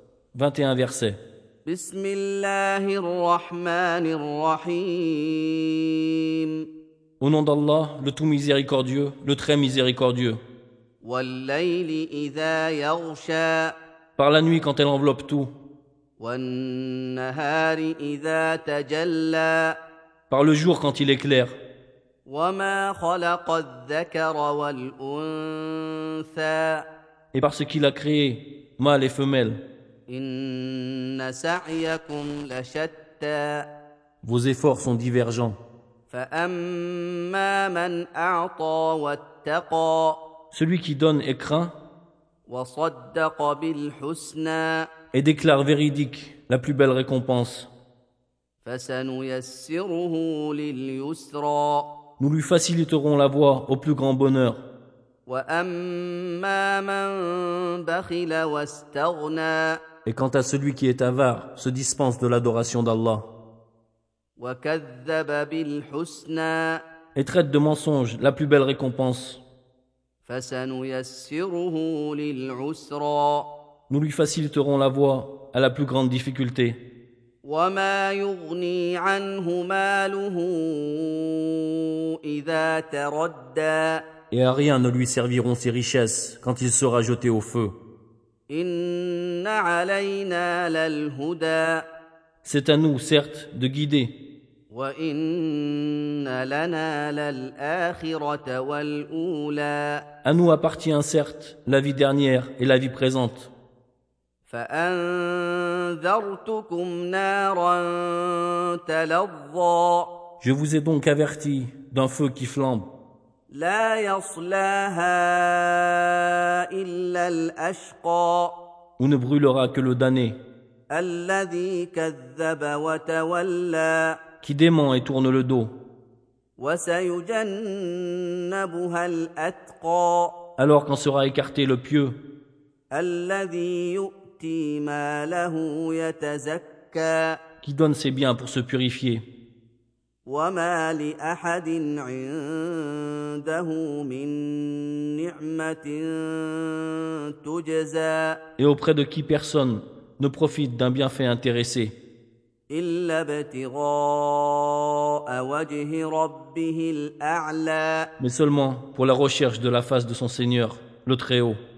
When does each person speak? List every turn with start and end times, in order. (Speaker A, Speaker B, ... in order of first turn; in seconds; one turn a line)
Speaker A: 0.3-1.2
Speaker B: 1.7-6.6
Speaker A: 7.2-10.4
Speaker B: 11.0-13.8
Speaker A: 14.2-15.5
Speaker B: 16.2-19.8
Speaker A: 20.3-21.6
Speaker B: 22.3-26.9
Speaker A: 27.3-29.6
Speaker B: 30.1-33.7
Speaker A: 34.2-35.6
Speaker B: 36.1-40.2
Speaker A: 40.5-41.7
Speaker B: 42.5-44.9
Speaker A: 45.1-47.7
Speaker B: 48.6-51.9
Speaker A: 52.2-54.6
Speaker B: 55.3-59.8
Speaker A: 60.0-63.3
Speaker B: 64.4-66.8
Speaker A: 67.2-69.4
Speaker B: 70.2-73.5
Speaker A: 73.9-76.8
Speaker B: 77.4-84.0
Speaker A: 84.3-87.7
Speaker B: 88.5-91.9
Speaker A: 92.4-94.2
Speaker B: 94.7-100.0
Speaker A: 100.2-103.5
Speaker B: 104.5-110.1
Speaker A: 110.4-112.9
Speaker B: 113.5-118.5
Speaker A: 119.0-120.4
Speaker B: 120.9-124.2
Speaker A: 124.4-125.7
Speaker B: 126.6-130.4
Speaker A: 130.6-132.2
Speaker B: 132.9-137.4
Speaker A: 137.6-139.2
Speaker B: 140.3-148.4
Speaker A: 148.6-151.9
Speaker B: 152.7-158.1
Speaker A: 158.2-161.6